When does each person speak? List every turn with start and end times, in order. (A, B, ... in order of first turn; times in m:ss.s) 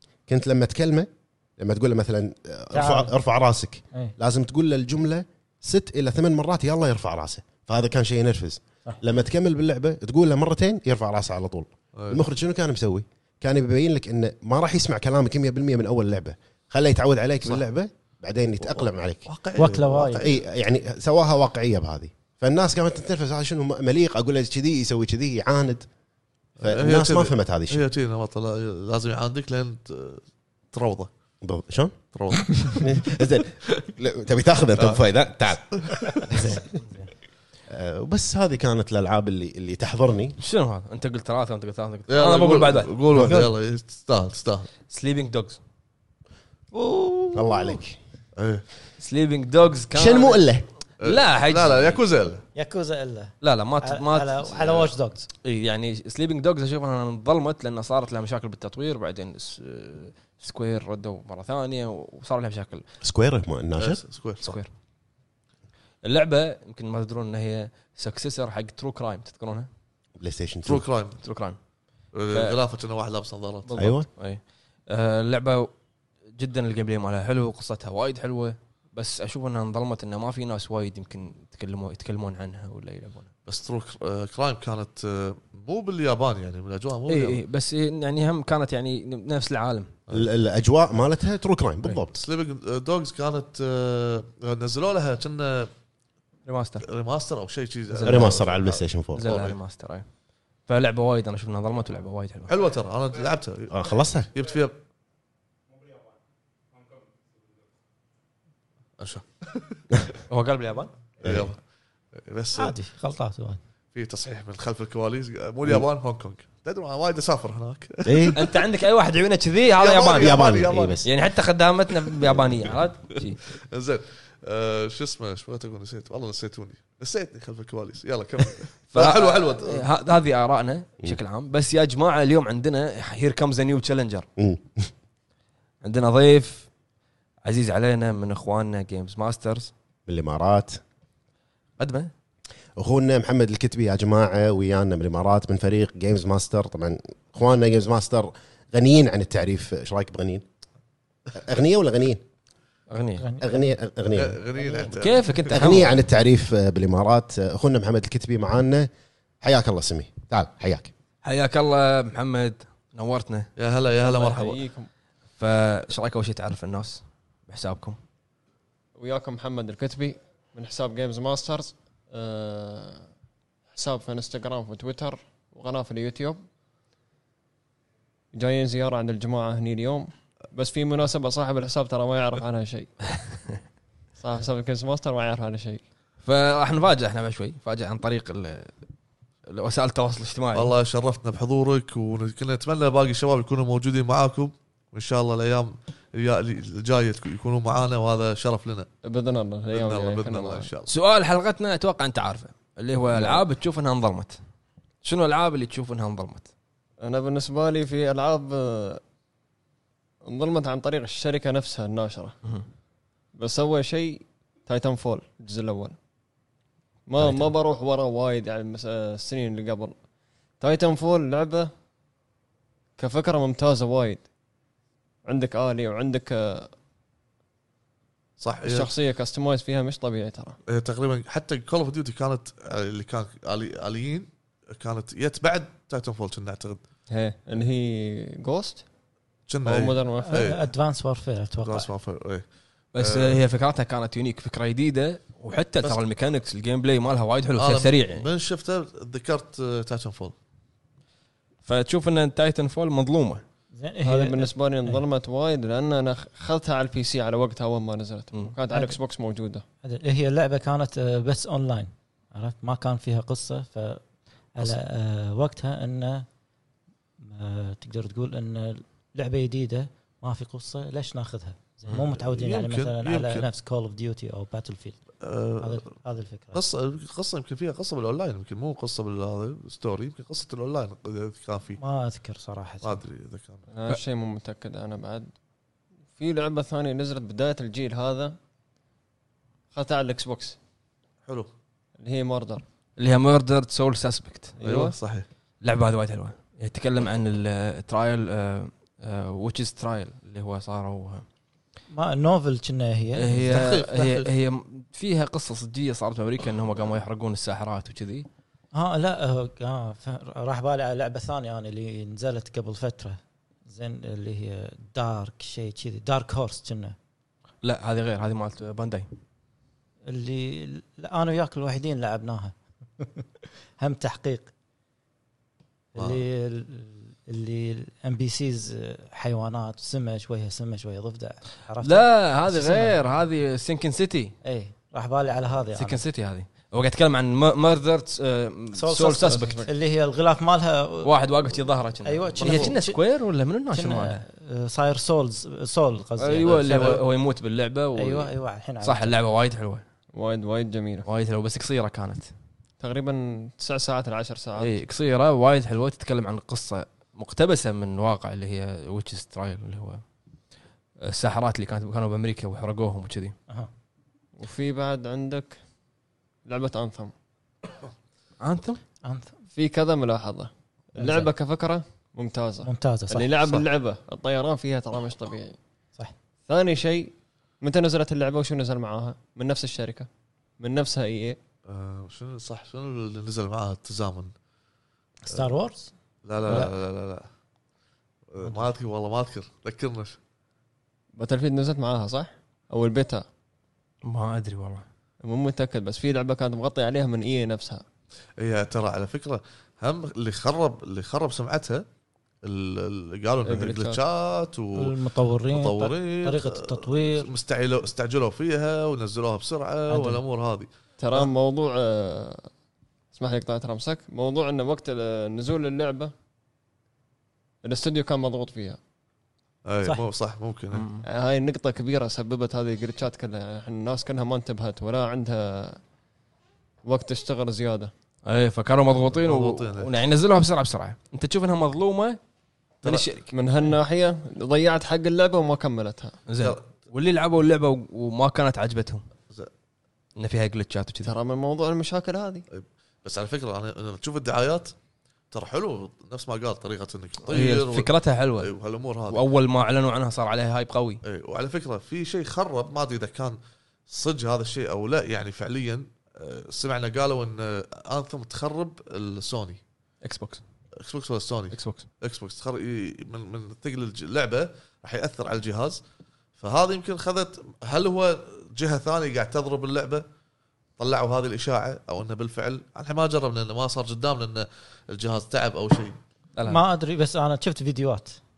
0:00.3-0:19.3 A
0:02.7-0:03.1 B
0:12.0-0:12.2 C
0:18.6-0:20.4 C
0:19.6-0:20.3 B
0:20.0-0:25.9 A
0:26.6-0:31.1 C
0:26.6-0:27.8 A
0:31.4-0:32.0 A
0:32.1-0:33.1 C
0:32.5-0:36.6 A
0:35.7-0:36.1 C
0:36.3-0:37.1 B
0:37.7-0:40.4 A
0:40.4-0:43.4 D
0:42.1-0:44.7 C
0:43.1-0:43.5 A
0:44.9-0:45.6 D
0:46.7-0:47.8 B
0:47.3-0:48.0 A
0:48.4-0:48.6 C
0:49.0-0:50.4 D
0:49.9-0:50.7 A
0:51.0-0:52.0 D
0:51.0-0:52.4 C
0:52.5-0:55.3 B
0:53.4-0:54.9 D
0:55.4-1:02.8 D
1:03.0-1:04.0 A
1:03.8-1:04.6 C
1:04.4-1:04.7 D
1:06.0-1:09.7 D
1:10.2-1:10.8 A
1:10.6-1:11.2 C
1:11.2-1:11.6 D
1:12.1-1:13.7 C
1:12.3-1:12.6 D
1:13.7-1:15.7 D
1:13.8-1:14.1 A
1:16.4-1:23.3 D
1:23.5-1:27.4 C
1:27.1-1:29.9 D
1:30.1-1:32.2 A
1:32.1-1:35.7 C
1:36.4-1:36.8 D
1:36.8-1:39.6 C
1:37.9-1:38.4 D
1:38.0-1:39.3 A
1:39.1-1:40.0 D
1:40.7-1:42.5 D
1:42.5-1:43.8 C
1:43.7-1:44.3 A
1:44.3-1:44.8 C
1:49.0-1:49.9 C
1:50.3-1:50.9 D
1:51.2-1:51.6 C
1:51.2-1:51.5 A
1:52.2-1:52.7 C
1:52.5-1:53.6 B
1:53.9-1:58.6 C
1:58.0-1:58.4 A
1:58.3-2:00.5 D
1:59.8-2:01.0 C
2:00.1-2:01.1 A
2:01.0-2:03.4 D
2:03.6-2:09.8 C
2:08.9-2:14.2 D
2:14.4-2:14.9 A
2:15.8-2:16.7 D
2:17.4-2:19.7 D
2:20.1-2:20.8 A
2:21.8-2:22.1 D
2:22.8-2:30.4 A
2:31.3-2:32.2 A
2:32.9-2:33.2 D
2:33.2-2:33.6 B
2:33.4-2:34.4 A
2:34.1-2:35.5 C
2:34.6-2:34.9 B
2:34.9-2:36.0 D
2:35.5-2:38.9 A
2:39.4-2:40.9 A
2:41.2-2:43.5 D
2:43.6-2:44.6 C
2:44.0-2:44.9 E
2:45.4-2:48.0 D
2:49.0-2:53.0 E
2:53.7-2:56.4 E
2:58.3-3:02.9 E
3:04.2-3:05.8 E
3:06.2-3:08.7 D
3:09.5-3:10.7 D
3:10.5-3:18.9 C
3:19.0-3:20.7 E
3:19.7-3:20.9 C
3:20.9-3:24.4 D
3:23.1-3:23.4 E
3:25.0-3:26.5 D
3:27.0-3:29.0 E
3:30.2-3:32.3 E
3:33.3-3:36.0 E
3:37.1-3:39.9 E
3:40.6-3:41.7 E
3:43.0-3:44.2 E
3:45.2-3:46.7 E
3:48.4-3:48.9 C
3:48.6-3:50.6 E
3:50.7-3:56.8 C
3:57.1-3:58.8 E
3:59.5-4:00.6 C
3:59.6-4:00.5 E
4:00.2-4:01.9 B
4:01.6-4:02.4 C
4:02.9-4:08.2 D
4:03.0-4:03.4 C
4:07.6-4:10.3 C
4:11.6-4:13.4 D
4:13.7-4:15.0 B
4:14.0-4:19.6 E
4:18.7-4:19.0 B
4:19.8-4:24.0 B
4:24.5-4:26.3 B
4:27.2-4:35.0 B
4:32.1-4:33.5 C
4:35.2-4:35.8 C
4:35.6-4:36.6 B
4:36.5-4:41.8 C
4:41.8-4:43.0 B
4:42.8-4:43.6 C
4:43.7-4:45.3 E
4:46.2-4:48.4 E
4:49.7-4:50.6 E
4:52.0-4:52.6 E
4:53.0-4:54.6 D
4:54.6-4:55.0 E
4:54.6-4:55.2 C
4:55.6-5:01.2 D
5:01.9-5:03.4 B
5:03.2-5:08.3 D
5:03.3-5:04.3 C
5:08.7-5:17.0 B
5:17.6-5:19.1 D
5:20.0-5:23.2 B
5:23.8-5:24.5 B
5:25.9-5:33.0 B
5:26.0-5:26.2 C
5:31.8-5:34.3 D
5:34.4-5:36.0 B
5:35.8-5:39.6 D
5:38.7-5:41.1 B
5:39.3-5:39.7 E
5:41.0-5:44.2 D
5:42.0-5:43.0 B
5:43.7-5:47.0 B
5:46.2-5:48.3 D
5:46.4-5:47.0 C
5:48.0-5:49.2 B
5:48.8-5:49.8 D
5:50.1-5:51.1 E
5:51.0-5:52.3 D
5:52.8-5:54.8 E
5:54.6-6:00.0 D
6:01.0-6:03.3 D
6:04.4-6:05.6 E
6:06.4-6:07.1 E
6:08.4-6:08.8 D
6:09.0-6:09.3 B
6:09.5-6:15.6 E
6:11.0-6:11.3 B
6:12.6-6:13.3 B
6:16.5-6:20.1 E
6:20.6-6:21.4 E
6:21.7-6:24.3 C
6:25.2-6:25.9 B
6:26.2-6:27.3 C
6:26.4-6:26.7 B
6:28.3-6:30.2 C
6:31.2-6:33.2 E
6:34.0-6:34.8 D
6:35.2-6:37.8 E
6:38.4-6:41.8 C
6:42.4-6:45.0 C
6:43.4-6:44.0 E
6:44.8-6:47.3 B
6:45.5-6:51.3 C
6:49.9-6:50.2 B
6:51.0-6:52.5 E
6:53.1-6:56.1 E
6:57.6-6:58.8 E
6:59.6-7:00.9 C
7:00.7-7:01.0 D
7:01.0-7:05.8 E
7:06.8-7:07.9 E
7:08.2-7:12.2 D
7:09.1-7:09.9 C
7:12.8-7:13.3 D
7:13.3-7:16.2 E
7:16.3-7:19.0 D
7:16.4-7:16.6 C
7:20.2-7:21.1 D
7:21.0-7:22.4 E
7:22.5-7:24.7 C
7:25.3-7:29.2 C
7:27.2-7:28.5 D
7:29.1-7:31.0 D
7:31.0-7:39.6 C
7:40.0-7:40.4 D
7:40.8-7:45.8 C
7:41.5-7:41.9 D
7:46.4-7:50.0 C
7:50.8-7:56.0 C
7:56.4-7:58.2 B